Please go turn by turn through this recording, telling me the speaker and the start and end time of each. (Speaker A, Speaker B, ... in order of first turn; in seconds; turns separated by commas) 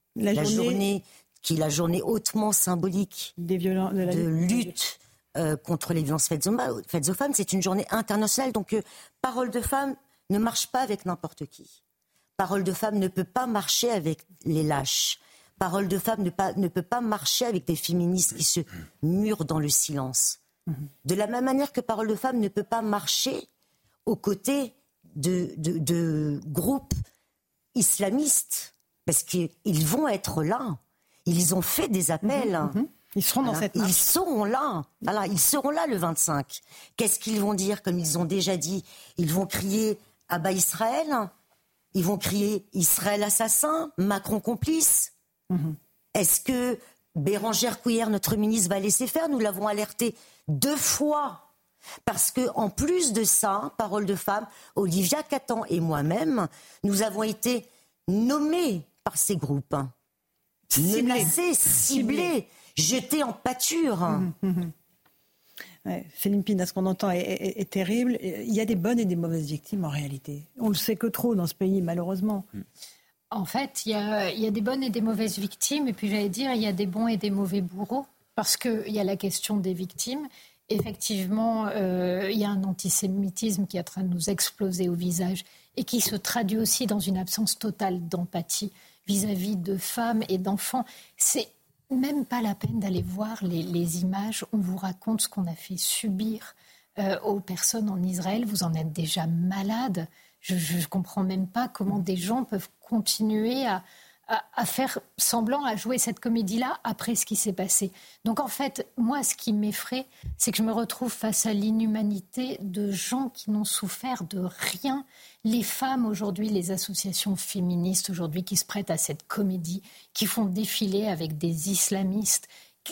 Speaker A: 0.2-0.8, Speaker B: 0.3-3.3, Speaker A: 3.4-4.7, Speaker B: 4.0-11.8, Speaker B: 12.4-20.4, Speaker B: 21.0-23.5, Speaker B: 24.1-26.9, Speaker B: 27.8-32.8, Speaker A: 32.2-34.0, Speaker B: 33.4-41.3, Speaker B: 41.9-45.1, Speaker A: 45.5-45.8, Speaker B: 46.1-51.5, Speaker B: 52.0-59.9, Speaker A: 60.7-62.3, Speaker B: 60.7-64.3, Speaker A: 64.1-64.7, Speaker A: 65.8-72.5, Speaker C: 73.3-122.5